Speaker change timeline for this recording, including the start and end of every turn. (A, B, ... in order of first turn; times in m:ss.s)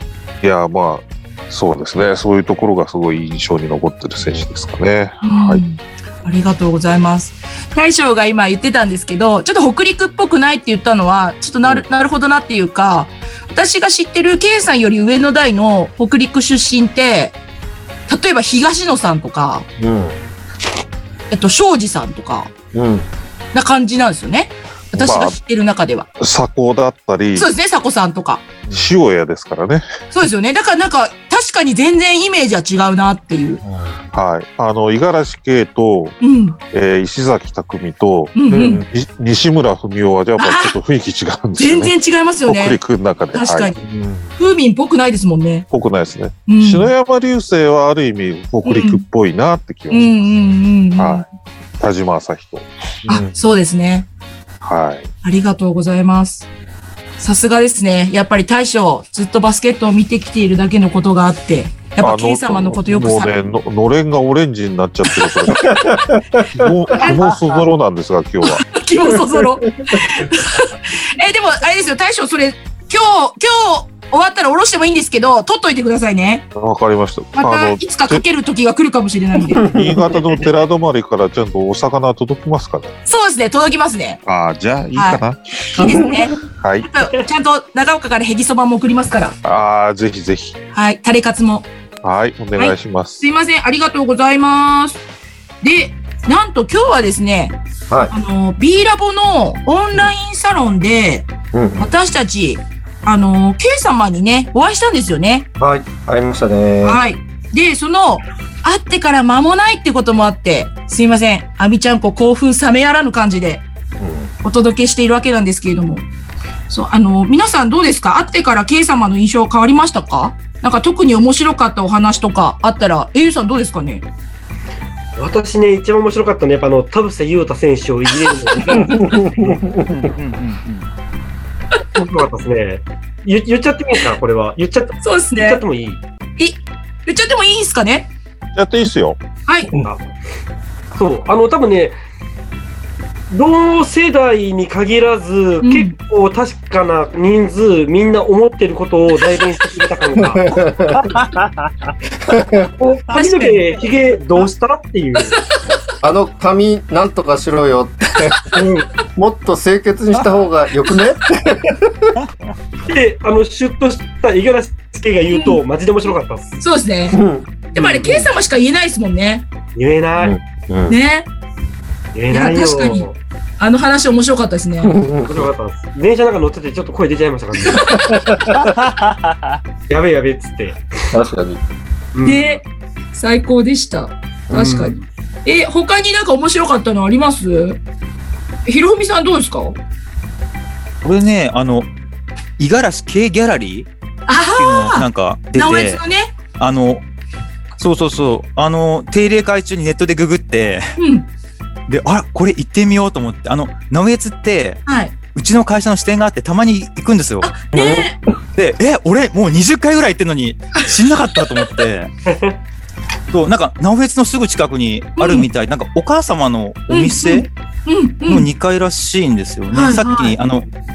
0:00.4-0:05.6 A
0:04.2-0:04.5 B
0:05.2-0:17.4 C
0:18.1-0:19.6 C
0:19.8-0:20.2 B
0:21.3-0:22.5 C
0:22.7-0:23.1 B
0:23.5-0:26.1 C
0:24.9-0:25.4 A
0:26.2-0:27.5 A
0:27.3-0:28.4 C
0:28.7-0:29.8 A
0:30.1-0:33.6 C
0:33.6-0:34.0 B
0:34.1-0:36.2 A
0:36.2-0:36.6 C
0:36.7-0:41.9 A
0:38.3-0:38.8 C
0:38.5-0:38.8 B
0:40.4-0:40.8 C
0:41.6-0:42.8 C
0:42.4-0:43.7 A
0:43.3-0:43.8 C
0:43.8-0:44.3 B
0:44.4-0:45.7 C
0:45.7-0:50.2 A
0:46.5-0:46.9 C
0:48.6-0:49.0 C
0:49.9-0:51.2 C
0:51.0-0:51.2 A
0:51.8-0:52.7 A
0:53.1-0:53.3 B
0:53.1-0:54.1 C
0:54.6-0:55.1 A
0:55.2-0:56.5 C
0:57.2-1:03.3 C
1:02.0-1:08.7 A
1:05.6-1:07.1 B
1:07.0-1:07.2 C
1:08.4-1:16.4 C
1:09.0-1:10.0 B
1:16.5-1:18.2 A
1:17.3-1:19.7 C
1:19.6-1:20.2 B
1:19.7-1:22.9 A
1:23.0-1:24.2 C
1:24.2-1:26.9 A
1:24.9-1:26.3 C
1:25.8-1:26.2 B
1:26.9-1:29.3 C
1:29.4-1:30.6 A
1:30.7-1:31.7 C
1:32.0-1:33.2 A
1:32.6-1:35.0 C
1:35.6-1:37.6 C
1:38.1-1:45.5 C
1:41.5-1:41.9 B
1:45.6-1:47.0 B
1:46.8-1:53.6 C
1:54.0-1:54.3 B
1:54.4-1:56.0 C
1:56.7-2:04.0 C
2:05.2-2:09.6 D
2:08.7-2:10.1 B
2:09.9-2:10.9 E
2:11.9-2:16.0 D
2:15.0-2:15.6 C
2:16.4-2:18.1 C
2:18.6-2:19.2 A
2:20.9-2:21.9 D
2:23.3-2:30.6 D
2:25.6-2:25.9 C
2:30.3-2:31.1 B
2:31.1-2:31.7 E
2:32.2-2:32.7 B
2:32.8-2:35.3 D
2:33.1-2:33.7 C
2:35.3-2:35.7 C
2:36.0-2:38.6 B
2:38.5-2:38.9 D
2:39.1-2:42.1 B
2:42.9-2:46.6 D
2:45.3-2:45.6 C
2:46.6-2:47.2 C
2:47.1-2:48.3 B
2:47.7-2:49.5 C
2:49.8-2:50.4 D
2:50.2-2:51.0 B
2:50.9-2:51.3 C
2:52.1-2:53.2 D
2:52.3-2:53.1 C
2:53.6-2:55.0 C
2:54.8-2:55.5 B
2:55.3-2:58.1 D
2:57.7-2:58.7 B
2:58.6-2:59.5 E
2:59.9-3:00.8 D
3:01.1-3:01.6 B
3:02.1-3:02.6 D
3:02.2-3:07.8 C
3:04.5-3:05.0 D
3:08.6-3:09.8 C
3:11.0-3:11.9 E
3:12.6-3:13.9 E
3:14.3-3:16.3 C
3:14.5-3:16.0 E
3:16.6-3:17.0 E
3:17.8-3:21.0 E
3:21.0-3:21.2 C
3:21.9-3:27.5 E
3:24.8-3:25.1 C
3:27.4-3:28.2 C
3:27.7-3:28.1 B
3:28.6-3:32.1 E
3:32.3-3:32.6 D
3:33.3-3:37.5 E
3:35.2-3:35.5 C
3:36.9-3:38.5 C
3:38.3-3:40.7 E
3:39.7-3:40.4 C